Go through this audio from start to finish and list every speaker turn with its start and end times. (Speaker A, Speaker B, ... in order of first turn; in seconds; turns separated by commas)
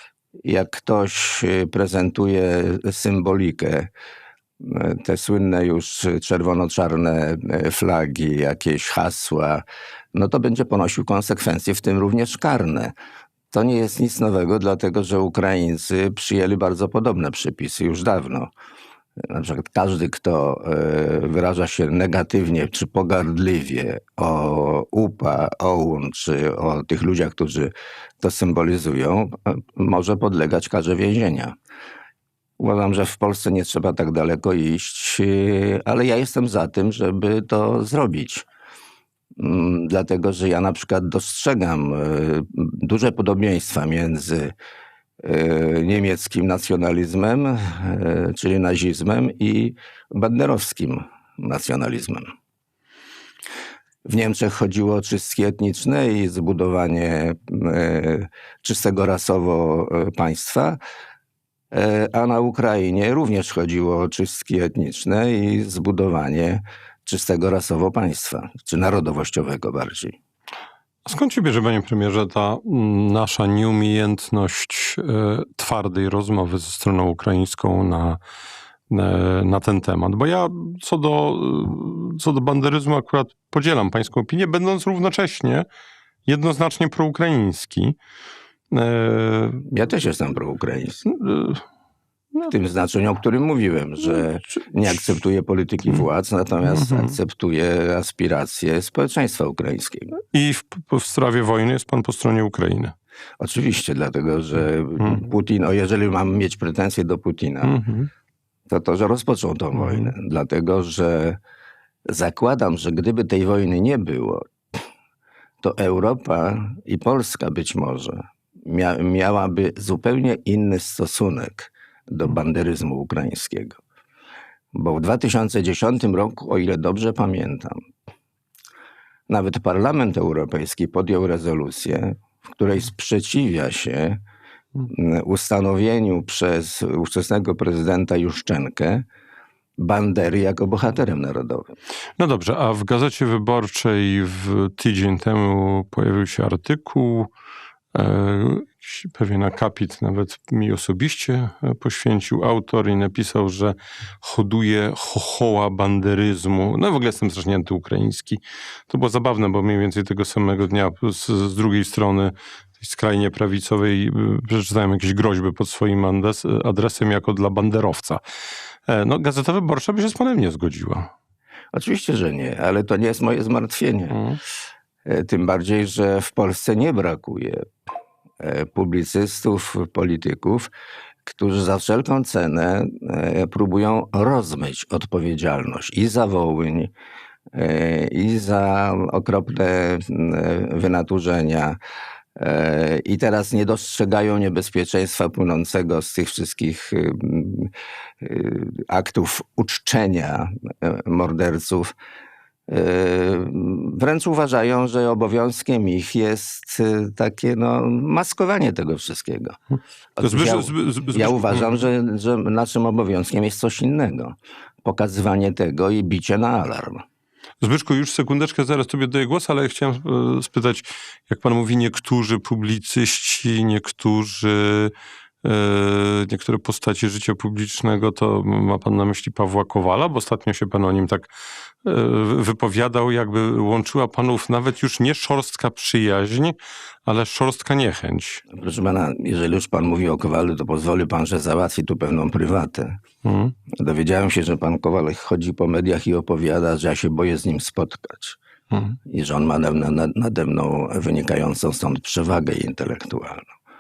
Speaker A: 0.4-3.9, Speaker A: 4.6-12.9, Speaker A: 13.5-18.5, Speaker A: 19.2-31.6, Speaker A: 32.6-38.5, Speaker A: 39.4-44.5, Speaker A: 45.2-52.3, Speaker A: 54.0-60.8, Speaker A: 61.7-70.2, Speaker B: 71.1-78.2, Speaker B: 78.9-85.7, Speaker B: 86.3-88.0, Speaker B: 88.7-89.7, Speaker A: 89.7-91.1, Speaker B: 91.0-91.6, Speaker A: 92.4-100.2, Speaker B: 96.6-97.2, Speaker B: 100.3-102.9, Speaker A: 103.4-107.8, Speaker B: 107.6-108.1, Speaker A: 108.7-111.4, Speaker B: 109.8-110.1, Speaker A: 112.1-114.5, Speaker A: 115.6-123.8, Speaker A: 124.7-127.8, Speaker A: 129.3-134.2, Speaker A: 134.9-139.1, Speaker A: 139.8-141.7, Speaker B: 142.2-147.3, Speaker B: 147.9-168.2, Speaker B: 168.9-171.1, Speaker A: 171.7-174.2, Speaker B: 174.1-174.4, Speaker A: 175.1-177.7, Speaker A: 178.4-180.7, Speaker A: 181.2-186.9, Speaker A: 187.5-191.8, Speaker A: 192.4-201.9, Speaker A: 202.7-209.6, Speaker A: 210.2-217.0, Speaker B: 210.2-211.7, Speaker B: 217.6-231.3, Speaker B: 231.8-238.4, Speaker A: 238.5-243.0, Speaker B: 243.2-243.5, Speaker A: 243.7-248.4, Speaker B: 248.7-249.0, Speaker A: 249.1-253.5